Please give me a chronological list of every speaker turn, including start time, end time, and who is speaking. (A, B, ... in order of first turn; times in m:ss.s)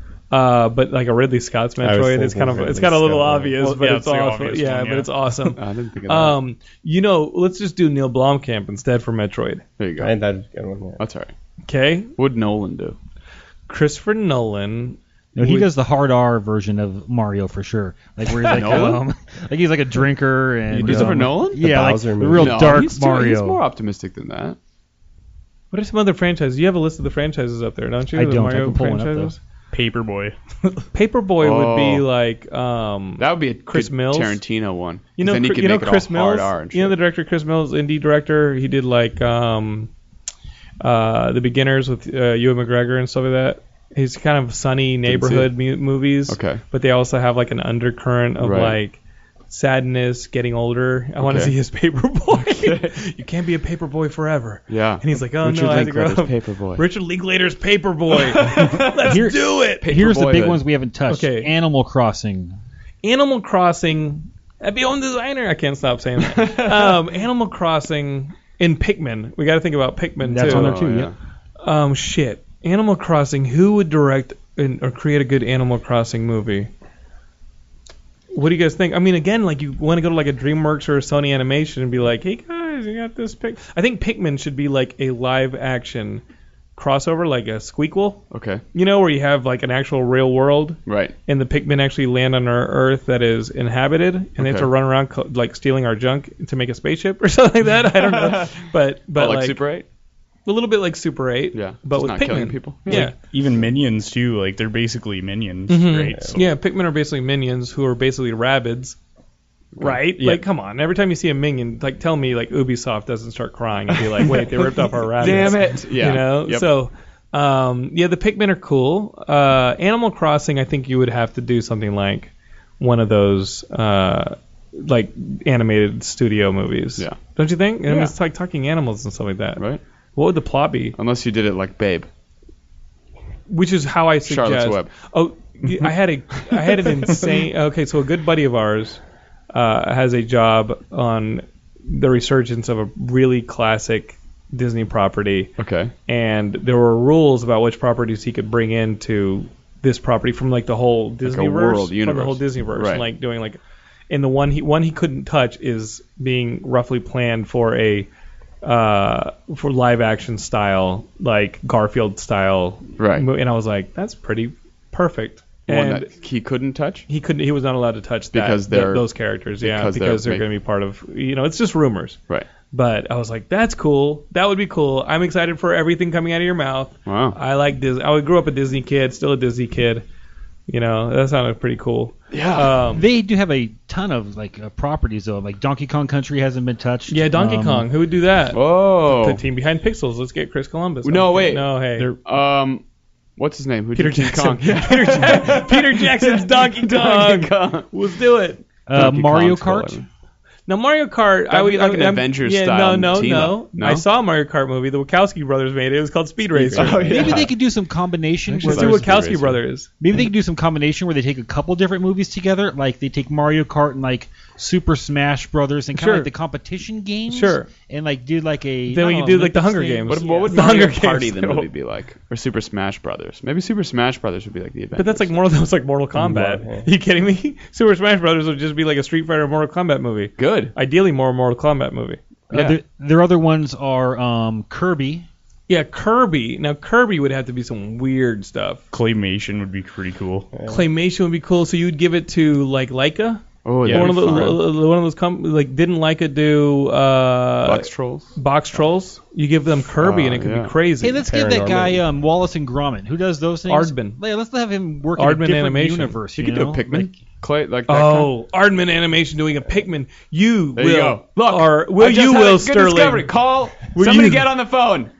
0:00.3-0:09.6 A
0:01.8-0:03.6 B
0:03.6-0:05.1 C
0:05.6-0:06.4 D
0:09.8-0:10.1 D
0:10.0-0:11.0 B
0:11.0-0:11.3 D
0:11.7-0:12.1 A
0:12.2-0:13.0 D
0:13.7-0:15.7 A
0:15.4-0:23.6 E
0:18.4-0:19.0 D
0:18.5-0:19.0 A
0:20.7-0:21.6 D
0:20.8-0:22.8 B
0:22.3-0:24.6 D
0:25.7-0:29.4 A
0:28.1-0:29.3 E
0:29.7-0:30.8 C
0:30.9-0:34.4 A
0:31.4-0:32.0 D
0:33.2-0:36.9 D
0:35.2-0:39.9 A
0:40.8-0:49.0 A
0:45.0-0:45.5 D
0:46.3-0:46.6 D
0:48.4-0:48.8 D
0:49.5-0:59.9 A
0:51.2-0:51.5 D
0:52.3-0:53.0 D
0:54.7-0:56.8 D
0:58.3-0:59.2 D
0:59.0-1:02.6 E
0:59.8-1:00.6 D
1:01.1-1:01.5 A
1:03.0-1:10.8 A
1:06.3-1:06.9 D
1:10.2-1:11.1 E
1:10.4-1:11.1 D
1:11.6-1:16.7 A
1:18.3-1:26.2 A
1:26.7-1:39.6 A
1:28.3-1:28.6 D
1:30.8-1:31.1 D
1:34.4-1:34.7 D
1:38.0-1:38.6 D
1:39.2-1:39.8 D
1:40.4-1:43.1 A
1:41.5-1:43.1 D
1:42.9-1:46.5 C
1:45.7-1:49.0 A
1:49.7-1:50.4 D
1:49.8-2:11.0 A
1:54.0-1:56.7 D
2:07.9-2:08.1 D
2:11.0-2:12.1 D
2:13.5-2:19.0 A
2:14.2-2:14.9 D
2:19.5-2:25.5 A
2:25.6-2:25.9 D
2:26.1-2:33.6 A
2:31.2-2:33.0 D
2:34.1-2:38.1 A
2:38.6-2:46.1 A
2:43.0-2:43.2 D
2:45.7-2:47.0 D
2:47.1-2:52.2 A
2:48.3-2:49.0 D
2:49.6-2:50.4 D
2:52.7-3:00.0 A
2:57.0-2:57.4 D
3:00.7-3:03.0 A
3:02.3-3:02.8 D
3:02.9-3:07.9 E
3:07.1-3:12.1 A
3:08.5-3:09.4 D
3:11.0-3:12.8 D
3:13.4-3:17.9 D
3:14.0-3:18.6 A
3:18.9-3:20.0 E
3:18.9-3:20.0 D
3:20.7-3:27.2 A
3:21.5-3:24.0 D
3:26.6-3:27.3 B
3:26.7-3:27.5 D
3:26.8-3:29.2 E
3:28.5-3:29.9 A
3:28.6-3:29.6 D
3:30.0-3:40.8 E
3:35.9-3:36.3 A
3:37.3-3:37.7 A
3:38.9-3:41.7 A
3:40.1-3:45.3 D
3:44.9-3:52.2 A
3:46.1-3:46.9 B
3:50.4-3:50.7 D
3:52.5-3:55.3 E
3:52.5-3:52.8 D
3:55.7-3:58.8 A
3:58.9-4:00.5 C
4:00.5-4:00.8 B
4:00.6-4:11.2 A
4:03.6-4:04.6 D
4:03.8-4:04.5 C
4:07.6-4:08.3 D
4:10.0-4:10.7 D
4:11.0-4:17.1 E
4:11.3-4:12.0 B
4:13.7-4:14.2 A
4:15.2-4:16.2 A
4:16.4-4:18.3 D
4:17.9-4:23.3 A
4:20.8-4:25.1 D
4:23.9-4:24.5 A